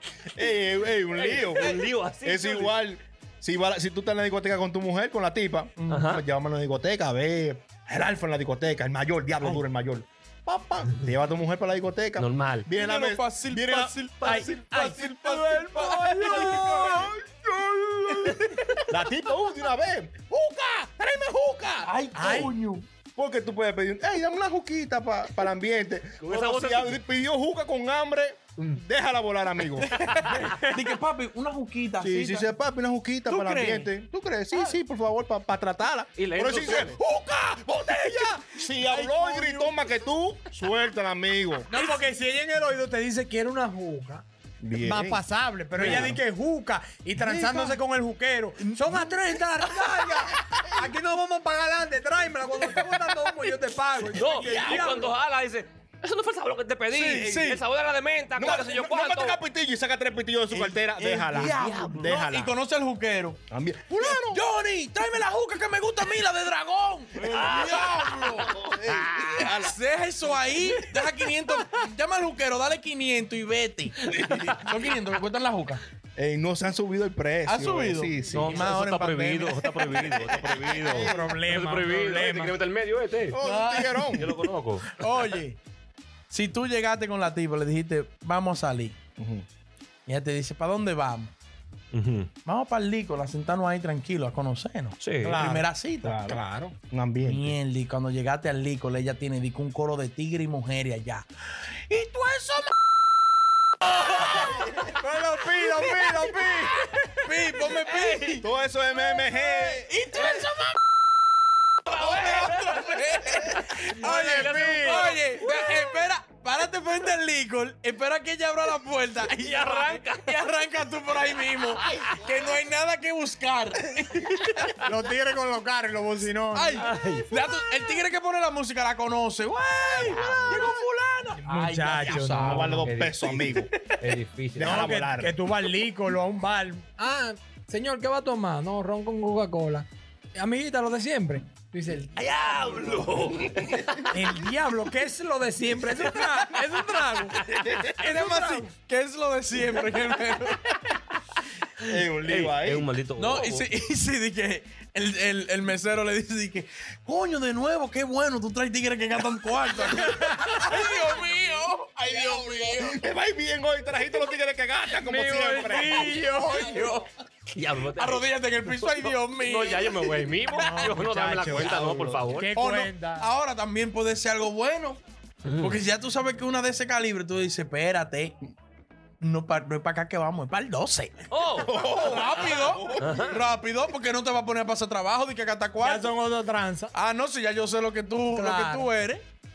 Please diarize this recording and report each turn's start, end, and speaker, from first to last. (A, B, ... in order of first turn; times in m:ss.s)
0:00.3-0:21.9 A
0:01.2-0:02.8 B
0:01.6-0:01.8 C
0:05.8-0:06.1 C
0:05.9-0:06.2 B
0:12.2-0:12.7 B
0:12.7-0:17.1 C
0:14.2-0:17.1 D
0:18.1-0:18.8 C
0:21.8-0:22.9 C
0:22.1-0:22.5 D
0:23.2-0:30.1 A
0:26.2-0:27.0 B
0:29.8-0:32.4 C
0:30.4-0:30.9 D
0:32.0-0:41.7 A
0:33.3-0:33.9 C
0:36.2-0:37.0 B
0:38.6-0:39.8 C
0:41.7-0:44.2 D
0:44.6-0:45.2 A
0:44.8-0:55.1 D
0:45.7-0:46.2 A
0:45.8-0:46.1 C
0:47.2-0:47.7 C
0:48.6-0:49.4 C
0:50.5-0:50.9 A
0:52.7-0:53.5 C
0:54.1-0:59.4 B
0:56.9-0:57.6 C
0:57.2-0:57.5 A
0:58.3-1:02.5 A
1:00.5-1:03.4 C
1:01.6-1:02.1 B
1:03.5-1:04.4 A
1:04.0-1:08.5 C
1:07.2-1:09.5 B
1:08.4-1:09.8 A
1:09.4-1:15.8 C
1:14.1-1:14.6 A
1:16.2-1:18.6 A
1:17.4-1:21.1 C
1:18.3-1:23.4 B
1:20.5-1:21.4 A
1:20.9-1:22.6 D
1:23.3-1:24.3 A
1:23.4-1:25.6 C
1:24.2-1:24.9 B
1:26.3-1:29.0 C
1:29.2-1:29.4 A
1:30.1-1:31.3 C
1:31.9-1:32.3 B
1:32.4-1:36.4 C
1:35.0-1:35.4 B
1:35.2-1:35.7 D
1:36.0-1:37.6 A
1:37.2-1:42.7 C
1:43.9-1:44.9 C
1:44.2-1:47.6 D
1:45.6-1:46.7 C
1:47.2-1:50.7 C
1:47.9-1:48.2 B
1:48.4-1:49.9 A
1:51.8-1:56.1 B
1:51.9-2:04.8 C
1:53.9-1:55.1 D
1:59.2-2:00.5 B
2:01.8-2:02.2 B
2:04.8-2:07.6 D
2:06.5-2:12.9 C
2:06.8-2:07.3 B
2:10.0-2:10.7 B
2:10.1-2:10.4 A
2:10.1-2:10.8 D
2:11.4-2:12.6 D
2:12.3-2:13.7 A
2:12.3-2:14.8 B
2:14.5-2:15.3 A
2:14.6-2:22.8 D
2:22.2-2:24.1 B
2:24.1-2:27.4 D
2:27.3-2:27.8 B
2:27.6-2:30.9 C
2:27.7-2:28.0 A
2:28.0-2:28.7 D
2:31.9-2:32.8 A
2:31.9-2:33.7 B
2:33.2-2:43.0 C
2:40.0-2:40.7 D
2:42.8-2:46.2 A
2:45.0-2:47.0 D
2:46.3-2:47.0 C
2:47.5-2:52.5 B
2:48.0-2:51.0 C
2:50.5-2:51.8 D
2:51.4-2:52.3 A
2:52.3-2:53.3 D
2:52.5-2:55.0 C
2:55.4-2:55.8 B
2:55.6-2:58.4 C
2:59.2-3:01.3 C
3:01.3-3:03.4 B
3:01.6-3:03.4 A
3:02.0-3:06.1 C
3:05.8-3:06.9 D
3:06.9-3:09.2 C
3:08.3-3:08.9 D